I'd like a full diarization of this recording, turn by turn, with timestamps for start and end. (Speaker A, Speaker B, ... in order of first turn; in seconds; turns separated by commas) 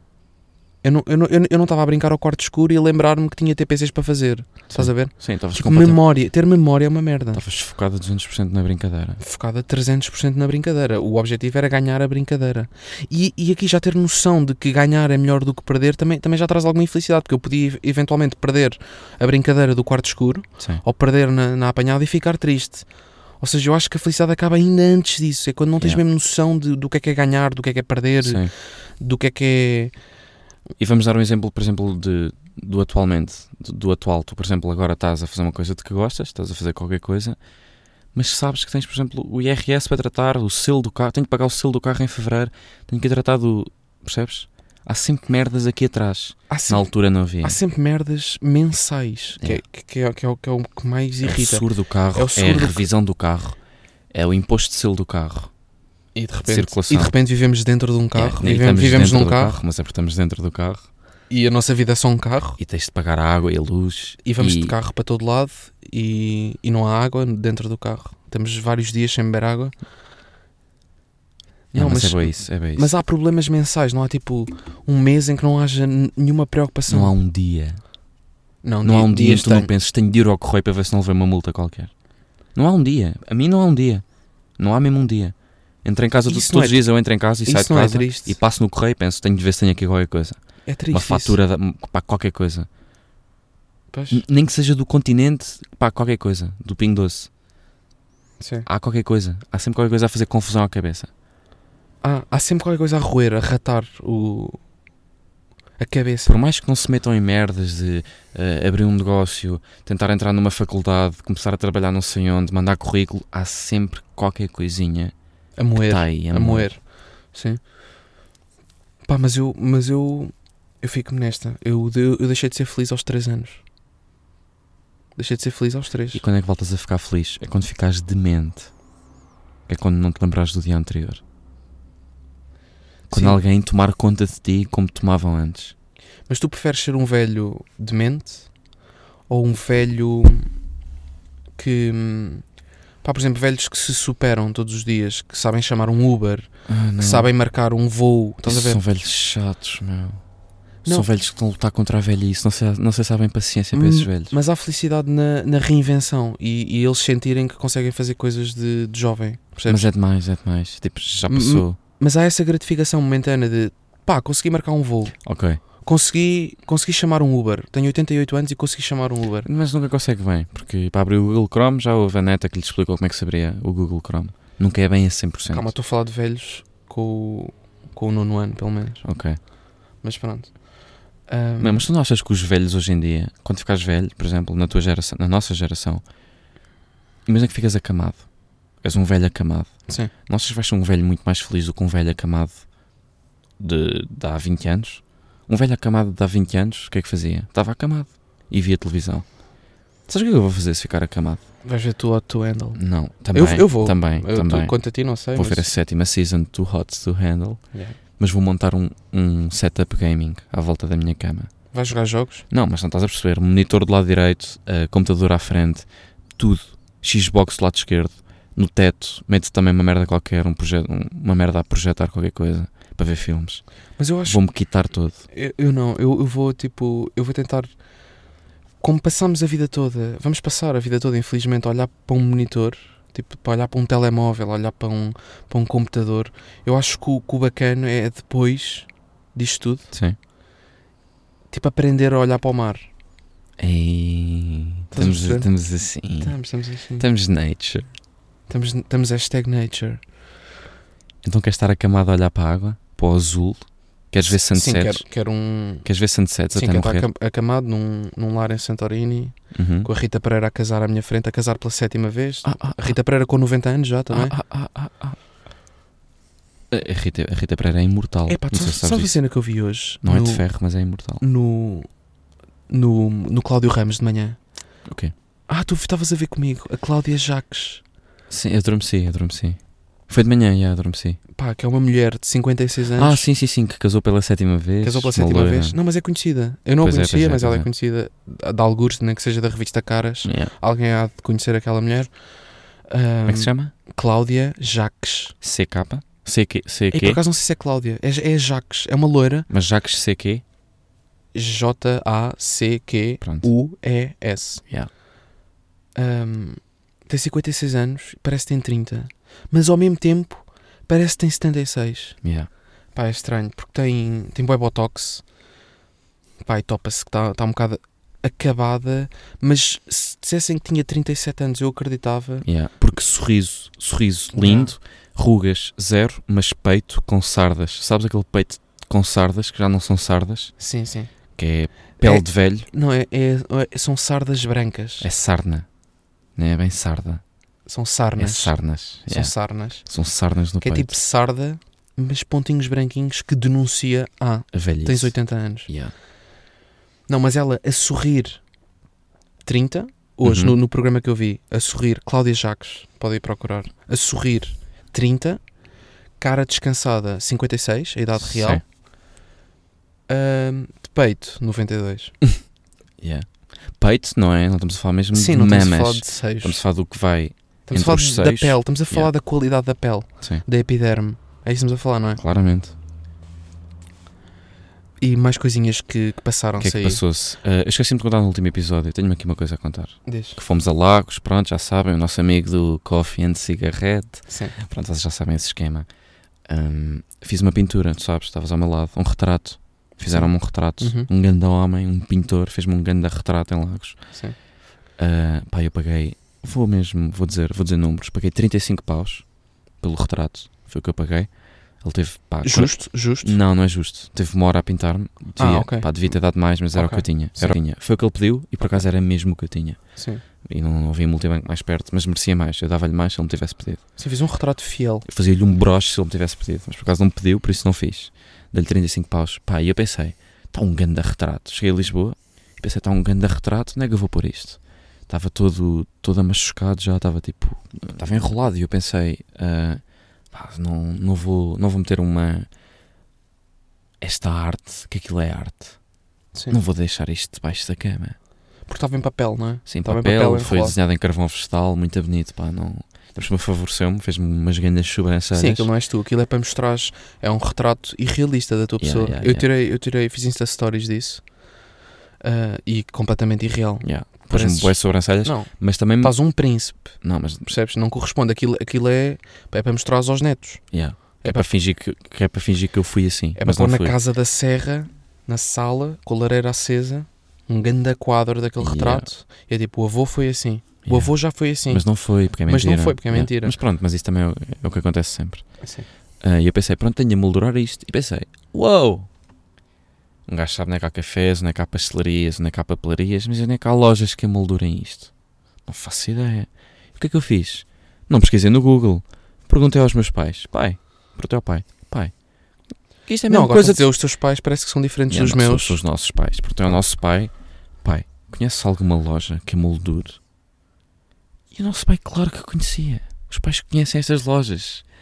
Speaker A: 0.8-7.4, Speaker B: 4.7-6.0, Speaker B: 7.3-9.2, Speaker A: 9.2-29.9, Speaker B: 28.2-28.5, Speaker B: 30.8-37.4, Speaker B: 38.1-47.6, Speaker A: 46.5-46.9, Speaker A: 47.4-52.8, Speaker B: 51.2-53.6, Speaker B: 54.1-55.5, Speaker A: 56.1-59.6, Speaker B: 56.5-57.1, Speaker B: 58.1-60.9, Speaker A: 61.3-62.6, Speaker B: 62.6-64.7, Speaker A: 64.2-69.7, Speaker A: 71.7-77.1, Speaker B: 71.7-72.9, Speaker B: 76.9-77.8, Speaker A: 78.6-79.7, Speaker B: 78.8-81.9, Speaker B: 82.5-84.0, Speaker B: 84.6-92.7, Speaker A: 86.3-86.9, Speaker A: 87.4-88.4, Speaker A: 90.7-91.4, Speaker A: 93.9-94.2, Speaker B: 94.1-97.3, Speaker A: 98.4-98.7, Speaker B: 98.7-101.1, Speaker A: 102.0-104.6, Speaker A: 105.8-106.4, Speaker B: 106.3-115.1, Speaker A: 115.6-117.6, Speaker B: 115.7-116.7, Speaker A: 119.0-123.6, Speaker A: 125.2-126.2, Speaker B: 126.1-128.7, Speaker B: 129.7-131.2, Speaker A: 133.1-133.4, Speaker B: 133.1-135.7, Speaker A: 136.3-138.5, Speaker A: 139.3-140.5, Speaker A: 141.6-142.4, Speaker A: 143.0-148.8, Speaker B: 146.7-147.3, Speaker B: 148.4-150.2, Speaker B: 150.8-154.3, Speaker A: 153.7-159.9, Speaker B: 159.7-161.8, Speaker A: 161.3-169.5, Speaker B: 165.2-165.6, Speaker B: 169.4-175.7, Speaker A: 175.5-179.0, Speaker B: 179.0-179.4, Speaker A: 180.0-180.7, Speaker A: 181.3-181.9, Speaker B: 181.6-186.0, Speaker B: 187.3-188.3, Speaker B: 188.8-192.6, Speaker B: 193.6-199.3, Speaker B: 200.1-201.4, Speaker A: 201.6-205.7, Speaker B: 202.8-207.6, Speaker B: 208.2-211.5, Speaker A: 211.7-212.5, Speaker B: 212.5-223.6, Speaker A: 224.0-224.4, Speaker B: 224.3-225.2, Speaker A: 225.3-227.7, Speaker A: 228.8-239.9, Speaker B: 239.9-240.2, Speaker A: 241.5-242.9, Speaker B: 243.6-246.4, Speaker A: 244.9-245.5, Speaker A: 246.2-247.1, Speaker B: 247.0-247.9, Speaker A: 248.5-250.0, Speaker B: 251.2-255.1, Speaker A: 254.3-255.9, Speaker B: 255.8-257.1, Speaker A: 256.5-264.4, Speaker B: 259.5-259.9, Speaker B: 262.4-262.9, Speaker B: 264.1-265.2, Speaker B: 266.7-269.2, Speaker A: 268.3-270.4, Speaker B: 270.0-271.2, Speaker A: 271.2-271.9, Speaker A: 272.7-274.4, Speaker B: 274.9-275.1, Speaker A: 275.5-277.8, Speaker B: 278.3-281.2, Speaker A: 281.4-283.3, Speaker B: 283.0-285.8, Speaker A: 284.8-292.1, Speaker B: 286.8-287.7, Speaker B: 290.2-290.5, Speaker A: 292.9-295.4, Speaker B: 293.3-293.7, Speaker B: 295.4-297.2, Speaker A: 296.9-299.5, Speaker B: 299.5-300.4, Speaker A: 301.3-304.6, Speaker B: 303.2-303.5, Speaker A: 305.9-312.2, Speaker B: 312.2-312.5, Speaker A: 312.9-315.2, Speaker A: 316.4-322.5, Speaker B: 322.4-330.6, Speaker A: 324.3-324.7, Speaker A: 330.6-331.1, Speaker B: 331.4-332.7, Speaker A: 332.0-335.1, Speaker B: 335.0-335.7, Speaker B: 336.4-337.2, Speaker A: 337.7-339.9, Speaker B: 338.2-340.9, Speaker A: 340.6-345.7, Speaker B: 344.5-345.9, Speaker A: 347.1-348.4, Speaker A: 349.4-355.5, Speaker B: 350.2-350.6, Speaker A: 356.2-358.6, Speaker B: 358.2-358.6, Speaker A: 360.1-362.2, Speaker B: 363.0-369.1, Speaker A: 365.1-366.6, Speaker A: 367.7-372.2, Speaker B: 372.2-372.7, Speaker A: 375.0-377.0, Speaker B: 376.6-385.9, Speaker A: 380.1-380.4, Speaker A: 384.3-384.6, Speaker B: 386.5-394.0, Speaker A: 390.1-391.1, Speaker B: 395.0-401.3, Speaker B: 401.8-409.8, Speaker A: 402.4-403.4, Speaker A: 405.4-405.9, Speaker A: 406.7-407.6, Speaker A: 410.0-410.2, Speaker B: 410.4-413.8, Speaker A: 414.0-415.1, Speaker B: 415.1-432.5, Speaker B: 434.0-435.8, Speaker A: 436.3-436.6, Speaker B: 436.5-438.2, Speaker A: 438.7-440.8, Speaker B: 439.7-445.7, Speaker A: 445.3-451.4, Speaker B: 448.8-449.5, Speaker A: 452.2-461.5, Speaker B: 453.8-456.2, Speaker B: 457.0-457.5, Speaker B: 460.7-463.9, Speaker A: 463.4-471.9, Speaker B: 468.6-469.1, Speaker B: 470.9-475.5, Speaker A: 472.4-473.6, Speaker A: 475.6-475.9, Speaker B: 476.2-479.1, Speaker B: 480.3-485.1, Speaker B: 485.7-492.1, Speaker B: 493.1-493.9, Speaker A: 493.3-495.8, Speaker B: 495.1-497.3, Speaker B: 497.8-500.2, Speaker B: 501.5-504.8